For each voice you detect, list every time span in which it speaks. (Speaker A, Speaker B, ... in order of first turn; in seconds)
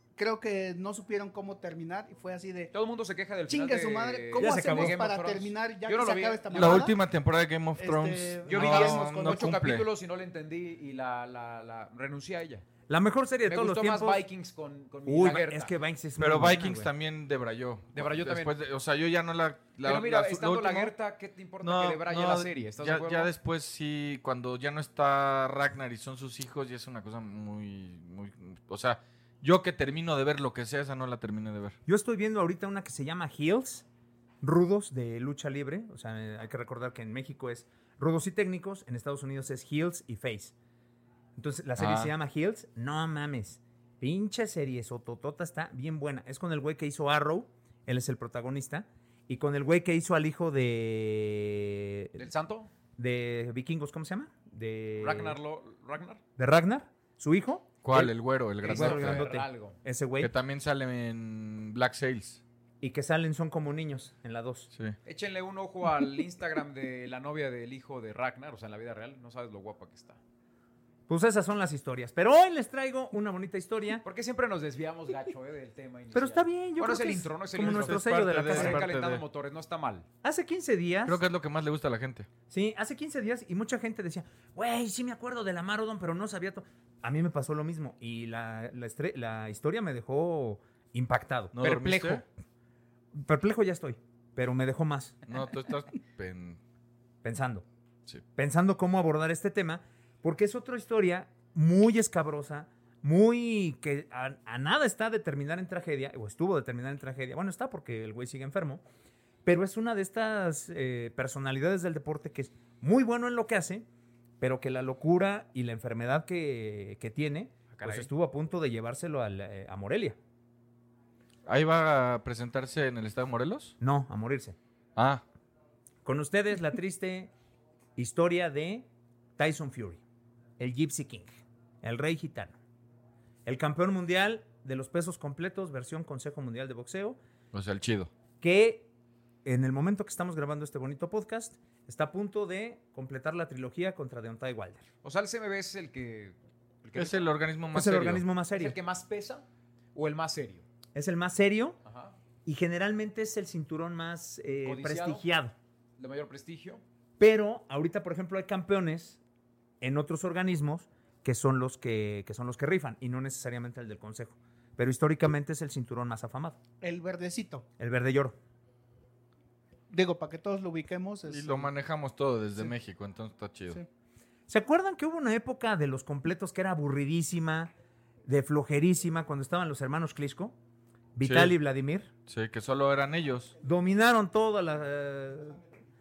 Speaker A: 0.1-2.7, 3.5-7.0, 7.8-9.5, 166.8-167.7, 169.9-171.7
Speaker B: 2.7-6.9, 8.4-12.6, 13.5-15.7, 17.9-18.5, 19.8-23.3, 52.1-52.7, 55.0-56.2, 58.6-59.8, 65.0-70.2, 74.0-80.0, 91.6-92.2, 117.7-118.1, 145.0-147.3, 148.5-150.6, 151.8-152.2, 154.6-155.2, 156.0-156.8
Speaker C: 4.4-5.0, 12.9-14.2, 15.1-16.9, 31.9-33.9, 34.4-40.5, 41.4-52.2, 53.0-55.4, 56.4-60.3, 62.8-64.7, 71.1-74.0, 76.1-78.8, 80.2-81.2, 82.5-91.6, 93.1-95.3, 97.2-97.7, 98.3-108.8, 109.4-113.8, 114.4-120.2, 123.8-124.5, 126.0-127.3, 128.0-128.9, 129.4-130.0, 130.6-131.3, 131.8-132.6, 133.4-137.2, 138.4-138.9, 139.4-144.8, 147.7-148.8, 150.9-151.8, 152.4-155.5, 157.2-159.2, 159.8-166.6, 167.8-168.4, 174.5-177.7, 178.2-180.6, 181.1-182.1, 183.6-185.6
Speaker D: 6.5-9.8, 16.2-20.9, 21.6-31.8, 41.8-42.1, 57.8-59.2, 60.2-62.4, 77.6-79.2, 81.0-82.3, 91.5-92.2, 95.3-96.6, 121.5-123.7, 125.0-125.2, 137.5-138.1, 146.9-148.2, 171.3-173.8, 181.2-181.5, 182.3-183.5